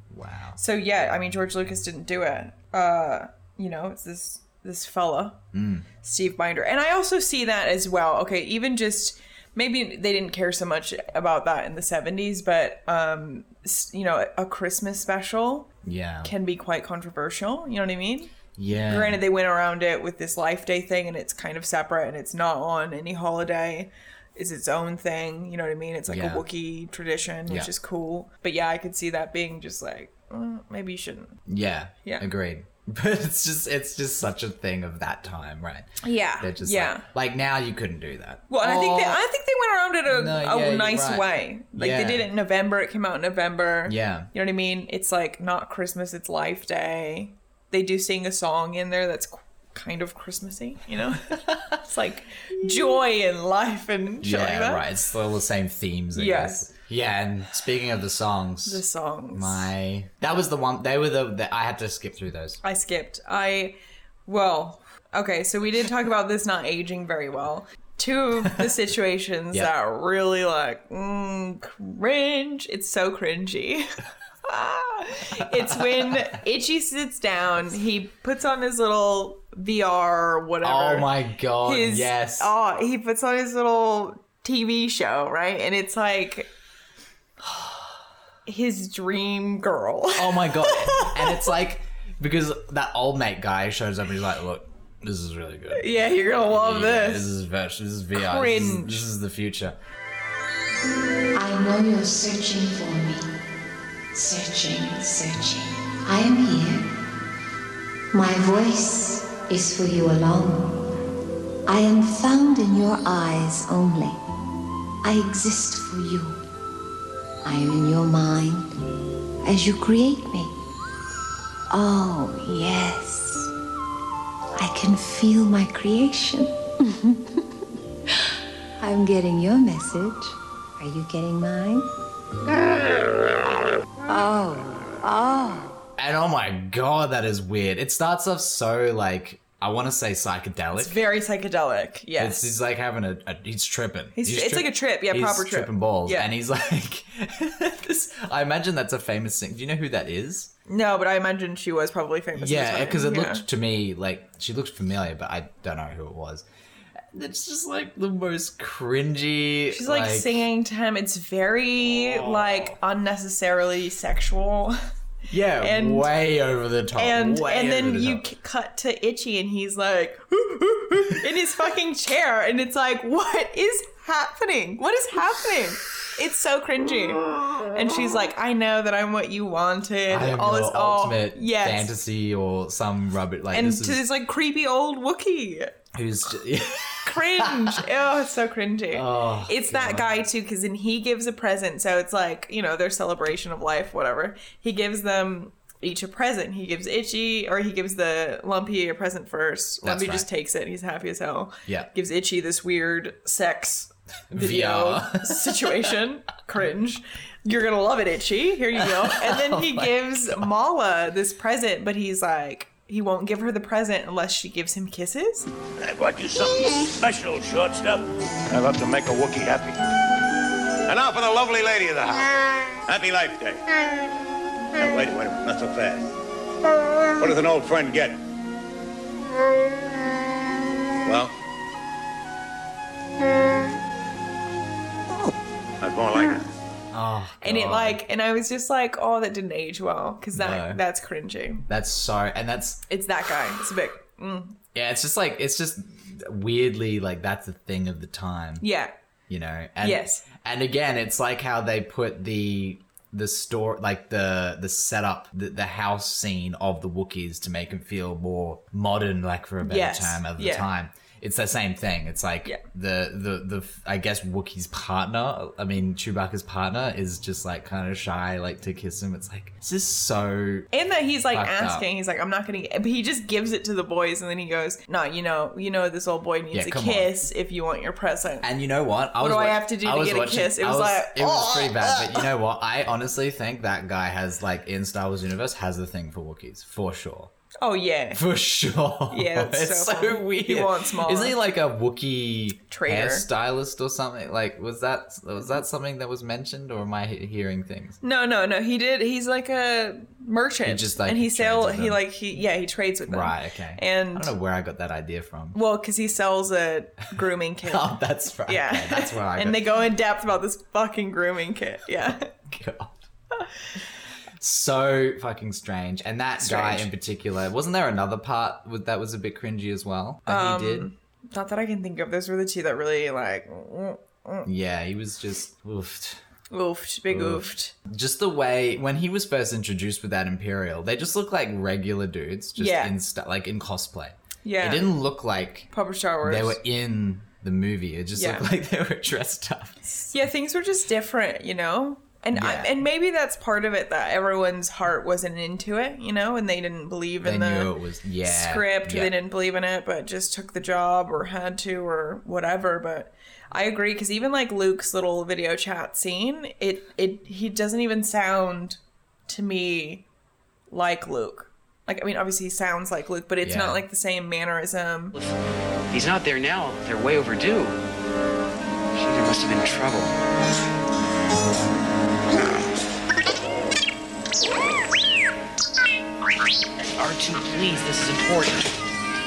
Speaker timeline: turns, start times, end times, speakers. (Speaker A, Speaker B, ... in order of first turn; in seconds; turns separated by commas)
Speaker A: 0.1-0.6, Speaker B: 0.6-5.4, Speaker A: 5.5-5.9, Speaker B: 6.0-15.7, Speaker A: 15.8-16.3, Speaker B: 16.2-31.4, Speaker A: 18.6-19.2, Speaker A: 26.1-26.4, Speaker A: 31.5-35.9, Speaker B: 36.0-37.0, Speaker A: 36.4-39.2, Speaker B: 38.5-54.9, Speaker A: 40.1-42.3, Speaker A: 43.9-44.3, Speaker A: 51.3-51.8, Speaker A: 54.2-62.6, Speaker B: 56.1-56.7, Speaker B: 58.7-59.7, Speaker B: 62.6-63.8, Speaker B: 64.3-73.9, Speaker B: 74.5-81.1, Speaker A: 75.5-76.3, Speaker A: 80.6-82.5, Speaker B: 81.6-86.5, Speaker B: 88.5-91.5, Speaker A: 90.2-99.8, Speaker B: 95.7-97.3, Speaker B: 98.1-99.1, Speaker C: 101.3-103.3, Speaker C: 104.1-106.9, Speaker C: 108.1-110.8, Speaker C: 111.7-114.2, Speaker C: 115.0-116.4, Speaker C: 117.4-118.7, Speaker C: 119.4-120.5, Speaker C: 121.7-123.5, Speaker C: 124.6-127.5, Speaker C: 128.8-131.9, Speaker C: 134.1-135.8, Speaker A: 136.0-141.0, Speaker B: 140.8-142.5, Speaker A: 142.2-150.5, Speaker B: 144.2-146.3, Speaker B: 150.7-153.4, Speaker A: 152.3-156.5, Speaker A: 157.1-160.4, Speaker B: 159.7-164.8, Speaker A: 161.8-162.8, Speaker A: 165.3-168.2, Speaker B: 165.6-166.1, Speaker B: 167.0-181.9, Speaker A: 180.1-184.0, Speaker B: 183.5-185.7, Speaker A: 185.9-187.8, Speaker B: 187.0-215.5, Speaker A: 188.9-190.1, Speaker A: 199.8-200.3, Speaker A: 204.3-205.9, Speaker A: 208.8-210.5, Speaker D: 215.8-219.8, Speaker D: 220.9-223.7, Speaker D: 224.8-226.1, Speaker D: 227.2-228.2, Speaker D: 231.1-231.3, Speaker D: 235.8-236.4, Speaker A: 236.9-238.0, Speaker B: 237.4-241.6, Speaker A: 240.3-240.8, Speaker A: 241.7-242.8, Speaker B: 242.9-244.6, Speaker A: 244.7-248.7, Speaker B: 248.6-248.9, Speaker A: 249.3-270.7, Speaker B: 249.8-250.2, Speaker B: 259.6-260.7, Speaker B: 270.7-278.5, Speaker A: 271.3-271.9, Speaker A: 276.5-277.1, Speaker A: 278.4-287.3, Speaker B: 279.2-282.3, Speaker B: 287.6-288.2, Speaker A: 288.1-298.0, Speaker B: 289.1-291.4, Speaker B: 292.7-293.3, Speaker B: 298.0-304.3, Speaker A: 300.6-302.0, Speaker A: 303.1-305.6, Speaker B: 305.5-307.9, Speaker A: 307.6-309.6, Speaker B: 308.5-312.3, Speaker A: 312.5-313.0, Speaker A: 314.4-320.9, Speaker B: 316.4-316.9, Speaker B: 320.3-324.5, Speaker A: 324.4-326.2, Speaker B: 326.5-327.7, Speaker A: 327.1-335.7, Speaker B: 332.6-332.9, Speaker B: 334.4-334.9, Speaker B: 335.7-336.6, Speaker A: 336.2-339.8, Speaker B: 338.1-338.5, Speaker B: 340.0-347.7, Speaker A: 342.3-342.7, Speaker A: 347.2-349.1, Speaker B: 348.2-360.1, Speaker B: 360.7-365.2, Speaker A: 363.4-363.8, Speaker E: 365.9-367.8, Speaker E: 368.9-370.1, Speaker E: 377.0-378.7